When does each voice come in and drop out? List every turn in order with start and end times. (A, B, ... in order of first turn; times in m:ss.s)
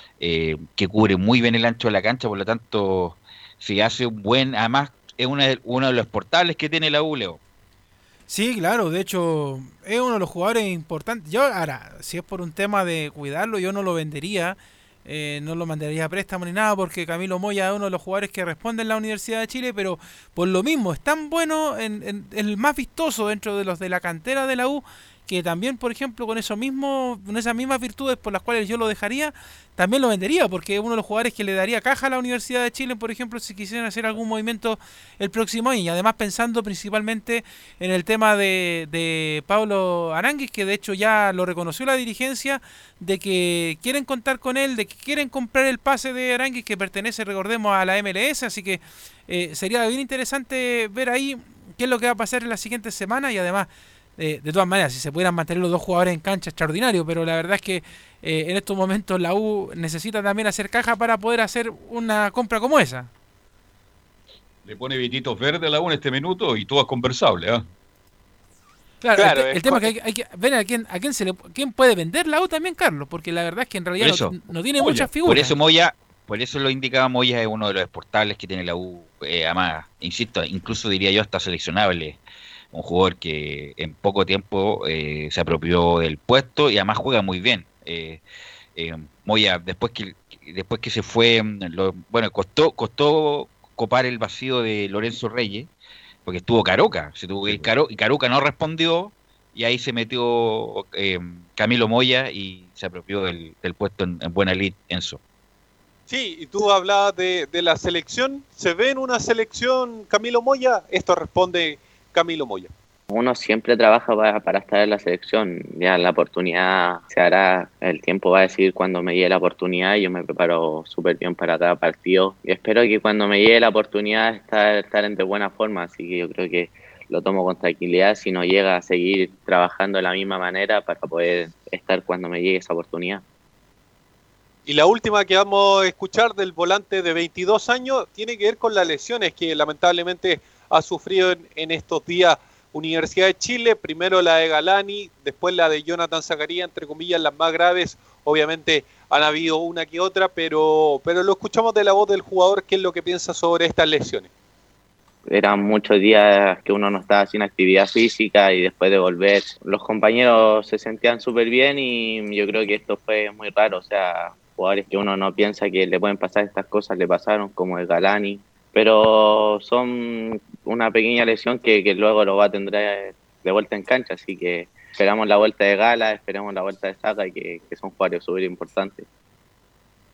0:00.2-0:07.4 A
0:08.3-1:03.1 B
1:04.6-1:07.7 C
1:09.0-1:15.5 B
1:09.2-1:09.9 D
1:14.0-1:14.4 A
1:14.8-1:15.1 C
1:15.2-1:22.2 A
1:22.7-1:28.2 A
1:28.8-1:35.7 A
1:36.3-1:45.2 A
1:46.1-1:52.7 D
1:53.1-2:13.2 E
2:14.7-2:34.3 D
2:35.3-2:59.0 E